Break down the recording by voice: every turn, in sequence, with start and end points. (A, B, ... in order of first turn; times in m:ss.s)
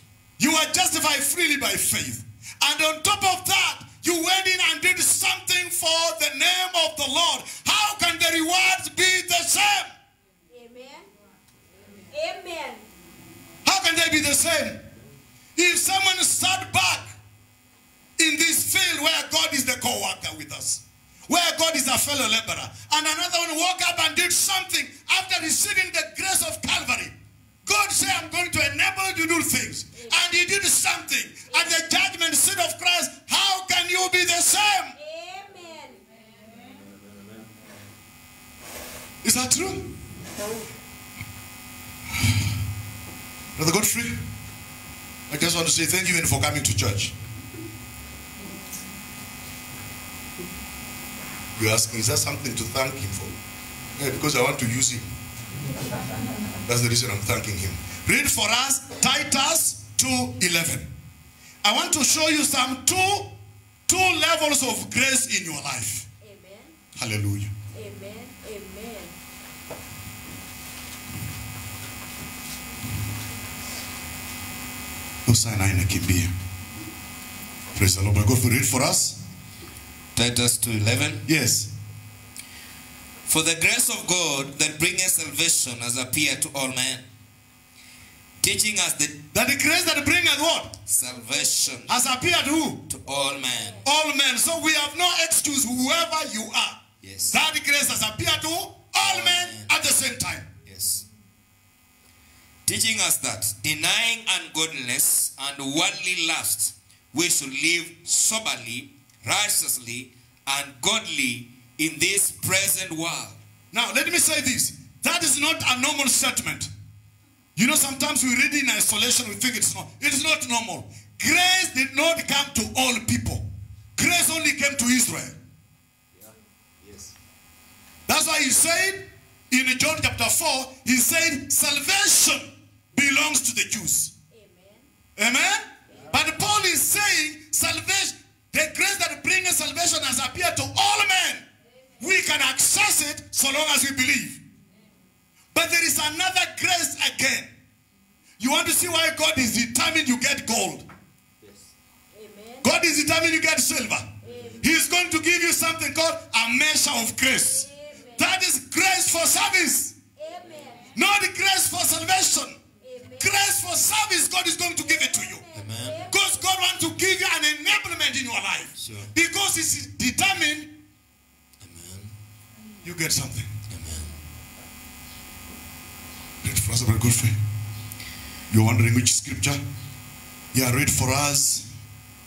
0:00.4-0:09.9 A
0:10.5-0:11.1 B
0:12.1-0:12.8 B
0:13.6-0:14.8 A
0:15.6-0:17.2 A
0:18.2-0:27.1 A
0:27.6-0:35.0 A
0:31.5-0:31.9 B
0:35.0-0:36.0 B
0:36.7-0:37.6 C
0:39.2-0:40.0 A
0:43.6-0:44.2 A
0:45.3-0:47.1 A
0:51.6-0:53.3 A
0:54.0-0:55.1 A
0:56.7-1:00.9 A
1:01.6-1:06.1 A
1:06.2-1:06.8 B
1:07.0-1:07.5 A
1:07.7-1:09.1 B
1:15.3-1:16.3 A
1:17.8-1:19.2 A
1:20.2-1:21.2 D
1:21.3-1:21.7 A
1:23.3-1:27.0 D
1:28.4-1:29.2 D
1:29.3-1:30.8 A
1:30.9-1:31.9 D
1:31.9-1:32.9 A
1:32.9-1:33.8 D
1:33.4-1:33.9 B
1:33.8-1:40.5 A
1:37.0-1:37.4 D
1:39.0-1:39.7 D
1:40.7-1:41.1 D
1:42.7-1:53.4 D
1:53.7-1:56.7 A
1:57.6-2:05.4 A
2:06.1-2:07.2 C
2:08.1-2:14.1 A
2:14.3-2:14.9 B
2:15.2-2:21.4 A
2:22.0-2:24.4 A
2:25.5-2:27.5 A
2:28.4-2:30.9 A
2:31.4-2:31.7 C
2:32.1-2:32.7 B
2:32.6-2:40.0 A
2:34.2-2:34.6 B
2:34.2-2:34.6 C
2:37.3-2:38.2 B
2:40.2-2:40.9 B
2:41.0-2:42.6 A
2:42.8-2:43.4 B
2:43.2-2:45.4 A
2:45.0-2:46.4 B
2:45.5-2:46.1 D
2:46.1-2:50.8 A
2:48.8-2:49.1 D
2:51.6-2:52.1 D
2:52.8-2:53.5 A
2:53.7-2:54.1 D
2:56.4-2:57.4 A
2:58.5-2:59.6 A
3:00.5-3:01.7 A